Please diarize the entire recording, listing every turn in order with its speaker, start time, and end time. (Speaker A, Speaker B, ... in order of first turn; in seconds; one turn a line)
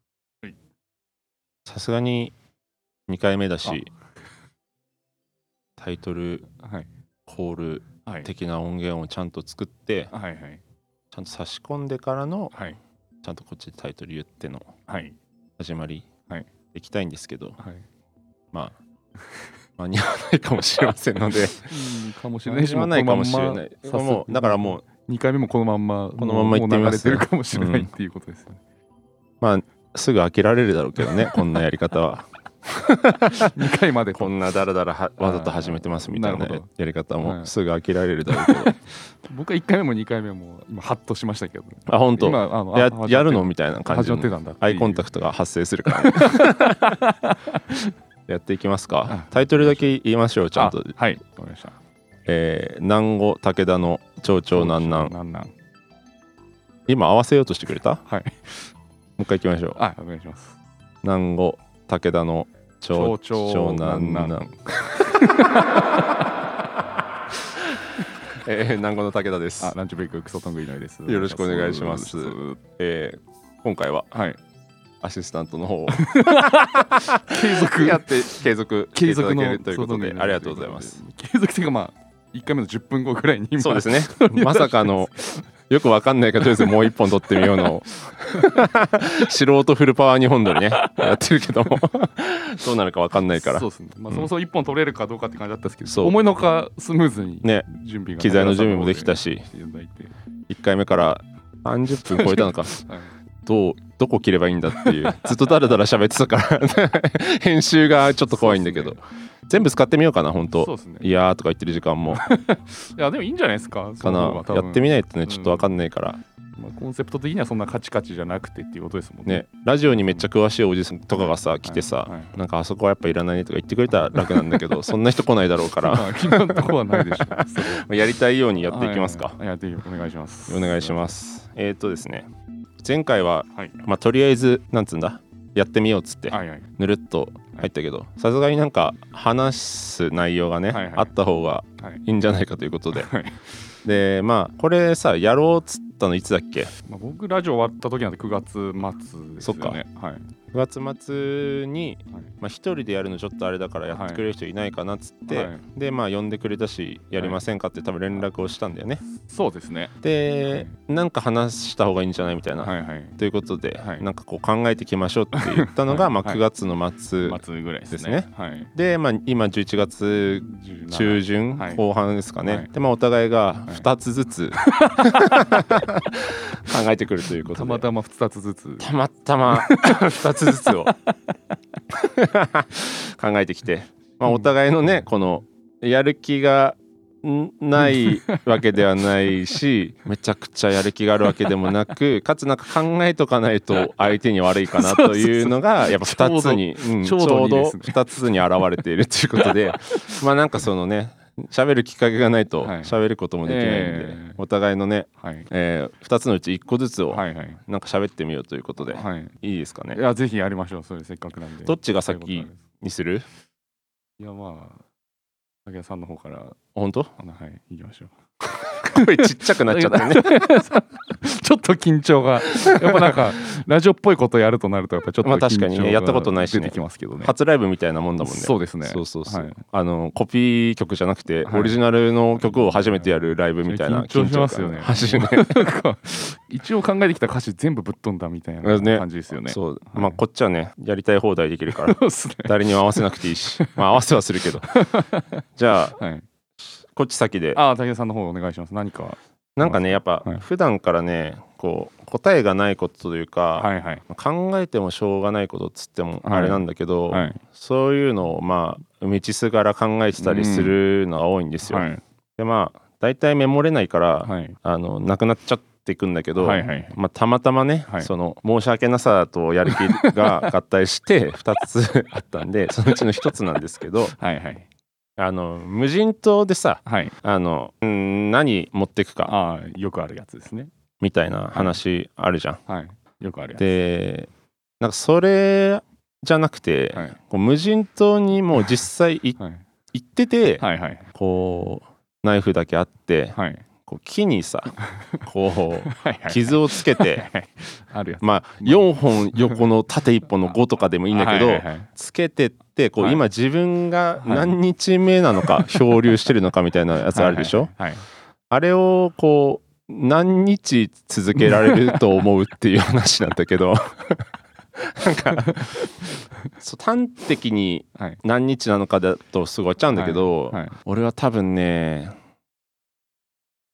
Speaker A: 1.6-2.3
Speaker A: 3.1-3.9
Speaker A: 5.8-6.5
Speaker B: 6.6-6.9
Speaker A: 7.2-10.1
Speaker B: 10.1-10.6
Speaker A: 11.1-12.5
Speaker B: 12.5-12.8
Speaker A: 13.2-14.7
Speaker B: 14.9-15.2
Speaker A: 15.6-16.1
Speaker A: 16.7-17.6
Speaker A: 19.8-21.7
Speaker B: 21.6-28.6
Speaker A: 22.4-24.8
Speaker A: 26.2-27.9
Speaker A: 29.4-33.6
Speaker B: 31.0-31.5
Speaker B: 33.3-34.3
Speaker A: 34.1-38.8
Speaker B: 35.2-36.7
Speaker B: 37.2-37.5
Speaker B: 38.3-45.0
Speaker A: 41.9-47.0
Speaker B: 45.9-47.9
Speaker A: 48.3-50.9
Speaker B: 49.1-49.9
Speaker B: 50.5-51.7
Speaker A: 52.2-55.1
Speaker B: 54.5-55.5
Speaker A: 56.9-58.0
Speaker B: 58.1-58.6
Speaker A: 59.2-59.8
Speaker B: 59.8-60.5
Speaker A: 61.0-66.0
Speaker B: 62.9-66.2
Speaker A: 68.3-69.7
Speaker B: 69.6-72.6
Speaker A: 71.1-74.1
Speaker B: 74.1-74.4
Speaker A: 75.0-81.0
Speaker B: 75.9-78.4
Speaker B: 78.9-85.4
Speaker A: 83.6-94.3
Speaker B: 86.4-87.7
Speaker B: 88.3-88.8
Speaker B: 90.5-91.7
Speaker B: 93.3-100.1
Speaker A: 95.8-96.2
Speaker A: 98.2-99.5
Speaker A: 100.5-102.8
Speaker B: 102.1-103.1
Speaker A: 103.5-112.2
Speaker B: 104.7-105.3
Speaker B: 108.3-109.0
Speaker B: 110.6-111.0
Speaker B: 112.1-115.7
Speaker A: 114.0-116.2
Speaker B: 116.5-119.5
Speaker A: 119.2-129.4
Speaker B: 121.6-122.3
Speaker B: 124.1-124.8
Speaker B: 125.8-127.9
Speaker B: 128.7-131.1
Speaker A: 130.5-132.3
Speaker A: 132.8-143.1
Speaker B: 136.3-136.7
Speaker B: 140.7-141.1
Speaker B: 142.9-143.5
Speaker A: 143.8-146.7
Speaker B: 146.8-150.3
Speaker A: 149.4-149.8
Speaker A: 150.5-159.0
Speaker B: 153.9-154.2
Speaker B: 155.3-155.6
Speaker B: 159.3-159.9
Speaker A: 160.0-177.9
Speaker B: 162.6-163.1
Speaker B: 163.8-164.0
Speaker B: 165.3-166.4
Speaker B: 167.2-168.7
Speaker B: 170.4-171.8
Speaker B: 172.4-172.7
Speaker B: 174.6-175.9
Speaker B: 177.5-178.9
Speaker A: 178.8-180.9
Speaker B: 179.5-181.3
Speaker A: 181.9-210.0
Speaker B: 187.8-188.8
Speaker B: 194.7-198.0
Speaker B: 199.4-200.2
Speaker B: 202.6-204.4
Speaker B: 205.2-205.5
Speaker B: 207.1-207.6
Speaker B: 208.8-209.3
Speaker B: 209.9-212.7
Speaker A: 211.6-213.2
Speaker B: 214.2-214.8
Speaker B: 215.6-216.6
Speaker A: 216.7-217.1
Speaker B: 217.2-227.3
Speaker A: 218.7-220.5
Speaker A: 222.5-223.2
Speaker A: 225.2-235.7
Speaker B: 228.2-229.5
Speaker B: 231.4-231.8
Speaker B: 232.4-240.2
Speaker A: 238.6-244.8
Speaker B: 241.7-244.0
Speaker B: 244.6-245.4
Speaker A: 245.6-246.0
Speaker B: 245.9-246.2
Speaker A: 246.9-247.6
Speaker B: 247.5-250.4
Speaker A: 249.6-274.1
Speaker B: 253.6-254.0
Speaker B: 256.2-257.4
Speaker B: 260.2-260.8
Speaker B: 261.7-262.0
Speaker B: 264.2-264.6
Speaker B: 266.4-267.0
Speaker B: 269.7-270.5
Speaker B: 274.1-274.6
Speaker A: 275.2-279.3
Speaker B: 276.9-277.1
Speaker B: 279.2-280.7
Speaker A: 281.0-282.6
Speaker B: 282.7-283.7
Speaker A: 283.6-284.3
Speaker A: 284.8-289.4
Speaker A: 289.9-297.3
Speaker B: 290.6-291.1
Speaker B: 293.3-293.6
Speaker B: 295.8-299.6
Speaker A: 298.2-307.7
Speaker B: 301.1-301.9
Speaker B: 304.2-304.6
Speaker B: 305.4-305.8
Speaker B: 307.1-308.0
Speaker A: 308.5-315.9
Speaker B: 311.4-312.0
Speaker B: 315.4-315.7
Speaker A: 316.6-322.1
Speaker B: 319.9-320.8